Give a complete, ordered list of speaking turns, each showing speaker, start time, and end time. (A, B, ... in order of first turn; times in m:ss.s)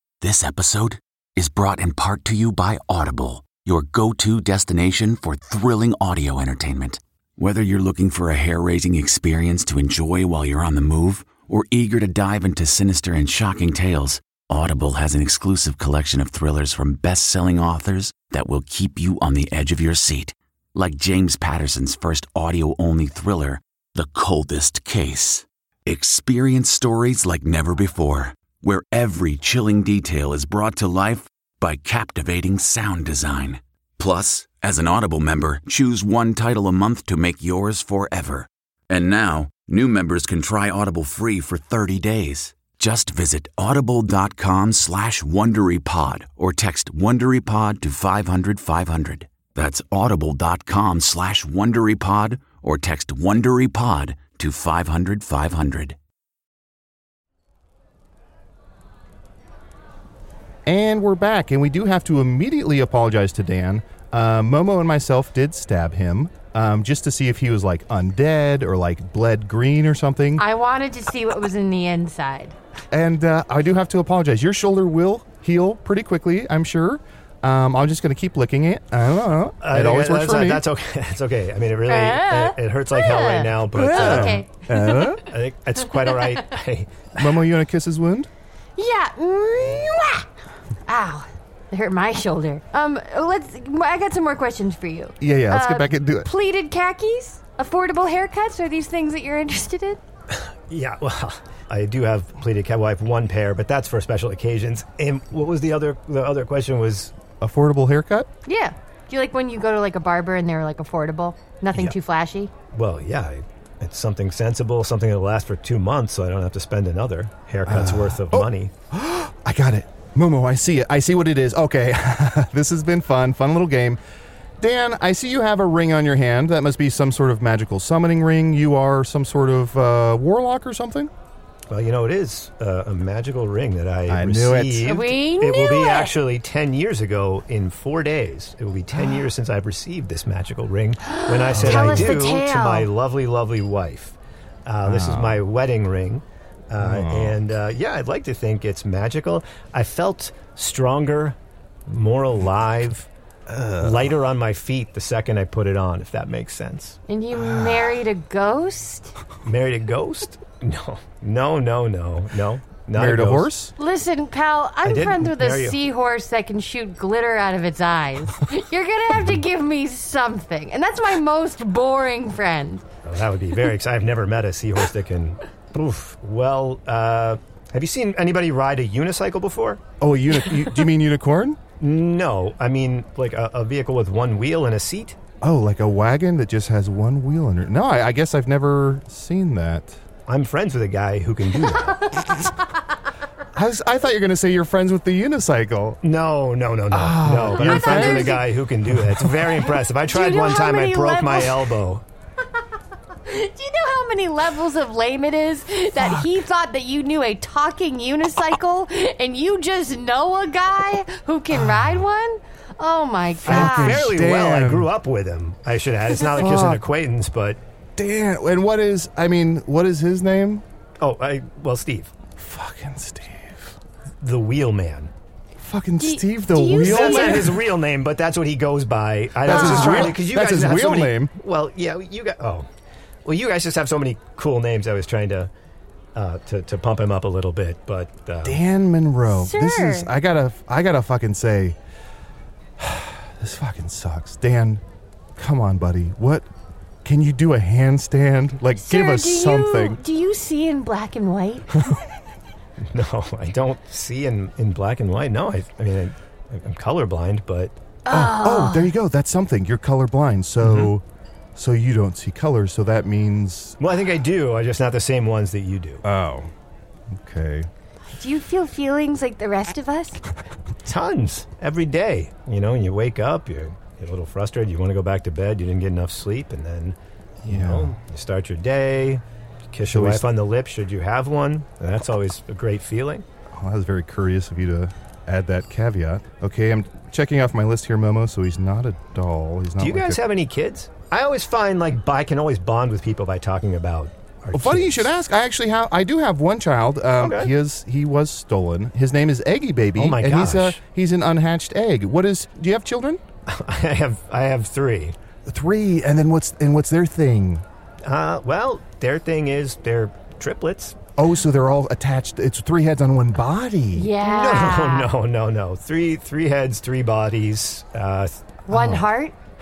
0:00.2-0:56.0 A
1:00.6-1:10.4 B
1:10.4-1:12.5 C
1:12.9-1:20.6 B
1:19.6-1:24.4 D
1:21.9-1:25.2 C
1:23.7-1:25.2 B
1:25.3-1:27.3 D
1:27.2-1:28.3 B
1:28.8-1:30.3 C
1:30.8-1:40.0 C
1:35.2-1:36.3 B
1:40.3-1:47.1 D
1:47.4-1:48.3 B
1:48.4-1:52.5 C
1:52.7-1:58.7 D
1:57.6-2:04.0 B
2:04.6-2:11.1 B
2:11.7-2:31.4 D
2:14.1-2:15.0 B
2:14.8-2:16.1 C
2:21.0-2:22.9 C
2:21.6-2:22.2 B
2:24.8-2:25.4 B
2:26.8-2:27.4 B
2:31.9-2:33.1 D
2:33.5-2:34.2 B
2:33.8-2:37.0 D
2:37.1-2:39.1 C
2:37.3-2:37.9 B
2:39.4-2:43.5 D
2:42.9-2:43.7 B
2:43.8-2:52.8 C
2:44.8-2:45.8 D
2:53.0-2:59.8 D
3:00.0-3:01.6 B
3:01.8-3:05.2 D
3:05.4-3:10.0 B
3:10.3-3:12.1 D
3:12.1-3:12.5 C
3:13.5-3:16.0 B
3:16.0-3:22.0 D
3:16.9-3:19.3 B
3:17.5-3:18.4 C
3:20.0-3:21.6 C
3:23.2-3:34.0 C
3:26.0-3:26.3 B
3:31.5-3:32.0 B
3:33.4-3:34.9 B
3:33.4-3:37.6 D
3:36.3-3:36.8 B
3:38.0-3:40.6 B
3:41.0-3:42.1 D
3:42.4-3:43.7 B
3:44.2-3:45.1 D
3:45.6-3:47.6 B
3:46.0-3:47.5 C
3:46.8-3:52.7 D
3:49.4-3:51.3 B
3:49.4-3:50.1 C
3:53.2-3:55.5 D
3:56.1-3:58.6 D
3:58.4-4:01.8 B
3:59.3-4:00.1 C
4:02.8-4:04.8 B
4:05.4-4:06.5 B
4:07.0-4:10.0 B
4:08.8-4:11.7 C
4:12.8-4:17.7 D
4:18.0-4:18.9 C
4:18.1-4:21.0 B
4:20.6-4:20.9 D
4:21.5-4:23.8 B
4:23.8-4:26.0 D
4:26.0-4:26.5 B
4:27.1-4:27.7 B
4:28.1-4:30.2 C
4:30.8-4:43.2 D
4:37.4-4:37.9 B
4:39.8-4:40.3 B
4:43.5-4:50.2 B
4:49.8-4:55.1 D
4:54.5-5:03.2 B
4:57.2-4:57.5 D
5:00.0-5:00.8 D
5:03.5-5:05.2 D
5:05.4-5:07.6 B
5:08.0-5:11.0 D
5:11.2-5:14.1 B
5:13.9-5:15.1 C
5:14.2-5:18.6 D
5:18.7-5:19.3 C
5:18.7-5:19.1 B